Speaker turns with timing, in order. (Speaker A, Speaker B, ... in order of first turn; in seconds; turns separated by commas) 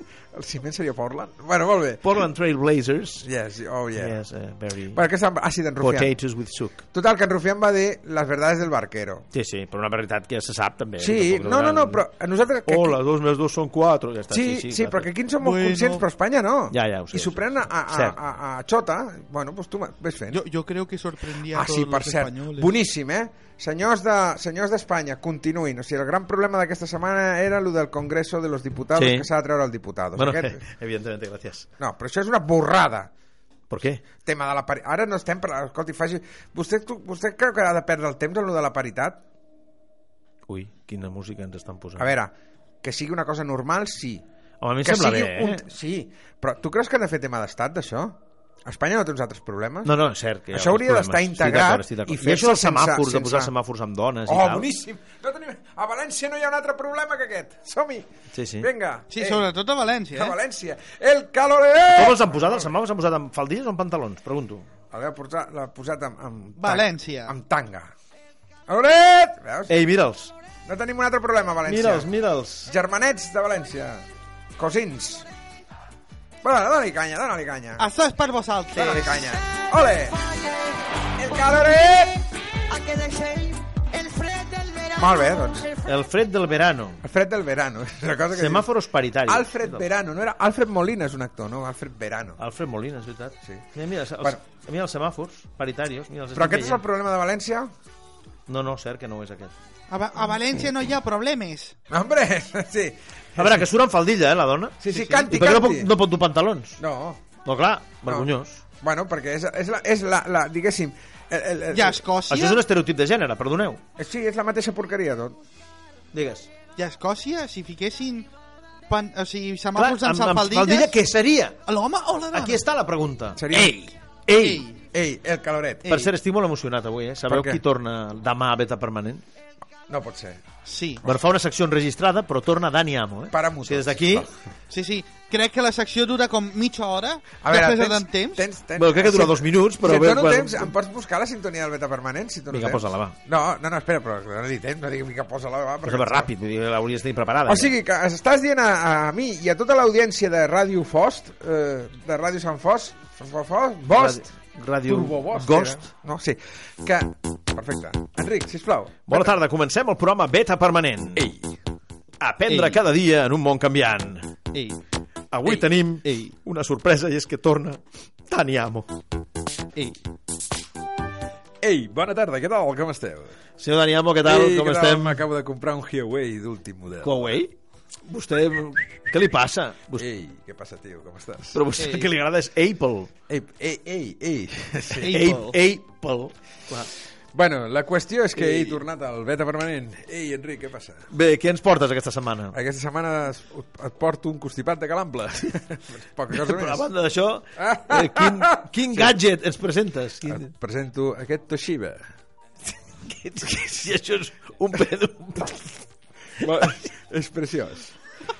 Speaker A: 0.3-2.1, Speaker B: 2.0-3.3, Speaker A: 3.2-4.2, Speaker B: 4.0-5.0, Speaker A: 4.9-6.1, Speaker B: 5.8-6.8, Speaker A: 6.9-9.2, Speaker B: 9.3-12.0, Speaker A: 11.0-13.0, Speaker B: 12.7-15.1, Speaker A: 14.3-20.4, Speaker C: 15.4-16.1, Speaker B: 16.7-18.2, Speaker C: 20.3-22.7, Speaker A: 21.5-30.6, Speaker B: 28.9-29.3, Speaker B: 30.1-31.7, Speaker A: 31.8-33.1, Speaker B: 33.7-34.0, Speaker A: 34.2-39.2, Speaker B: 40.5-42.1, Speaker A: 42.0-44.2, Speaker B: 44.6-45.6, Speaker A: 44.8-49.9, Speaker B: 49.8-54.7, Speaker A: 50.5-53.5, Speaker A: 54.2-59.5, Speaker B: 58.3-58.7, Speaker C: 59.1-60.4, Speaker A: 60.1-62.7, Speaker B: 61.9-64.7, Speaker A: 64.9-67.9, Speaker C: 66.6-67.3, Speaker A: 68.7-69.8, Speaker B: 69.7-70.3, Speaker A: 70.7-72.1, Speaker B: 71.7-72.7, Speaker A: 72.7-74.0, Speaker A: 74.6-75.3, Speaker A: 76.4-77.8, Speaker C: 77.8-79.3, Speaker A: 78.7-80.2, Speaker D: 79.6-82.0, Speaker A: 81.2-82.2, Speaker D: 82.7-85.9, Speaker A: 85.0-85.7, Speaker B: 85.8-87.0, Speaker A: 87.0-88.7, Speaker B: 88.3-89.8, Speaker A: 89.2-92.4, Speaker B: 92.4-96.8, Speaker A: 96.3-97.7, Speaker B: 98.5-99.5, Speaker C: 99.9-101.8, Speaker A: 101.9-103.6, Speaker B: 103.3-106.8, Speaker A: 104.8-105.9, Speaker C: 104.9-105.3, Speaker A: 106.8-107.2, Speaker B: 107.4-108.6, Speaker A: 108.0-112.0, Speaker C: 111.7-112.6, Speaker B: 112.3-113.8, Speaker A: 114.0-115.4, Speaker B: 116.1-116.5, Speaker C: 116.8-118.3, Speaker C: 118.9-121.0, Speaker B: 119.8-121.6, Speaker C: 121.7-122.6, Speaker B: 122.3-124.7, Speaker A: 123.3-123.9, Speaker C: 124.3-124.8, Speaker A: 124.9-125.9, Speaker C: 125.8-126.1, Speaker B: 125.9-129.2, Speaker A: 127.3-127.6, Speaker A: 129.9-130.4, Speaker C: 130.6-131.0, Speaker B: 131.0-134.3, Speaker A: 133.3-134.3, Speaker C: 134.7-138.4, Speaker A: 137.4-146.3, Speaker B: 138.8-140.7, Speaker B: 142.5-143.1, Speaker B: 145.8-147.7, Speaker A: 147.4-154.2, Speaker B: 153.9-155.8, Speaker A: 154.8-159.3, Speaker B: 159.1-161.3, Speaker A: 161.2-161.5, Speaker B: 162.2-164.3, Speaker C: 162.5-162.8, Speaker C: 164.5-164.8, Speaker B: 165.3-169.0, Speaker C: 166.0-166.3, Speaker A: 171.6-173.3, Speaker B: 173.6-175.2, Speaker A: 174.2-177.2, Speaker B: 177.0-180.1, Speaker A: 179.9-181.6, Speaker B: 181.5-183.1, Speaker A: 183.3-185.2, Speaker C: 185.0-185.5, Speaker B: 185.0-186.9, Speaker A: 187.3-191.1, Speaker B: 191.1-192.6, Speaker A: 192.5-196.9, Speaker B: 196.3-200.5, Speaker A: 197.6-199.2, Speaker A: 200.2-202.0, Speaker B: 203.1-205.8, Speaker A: 206.4-207.9, Speaker B: 206.4-206.7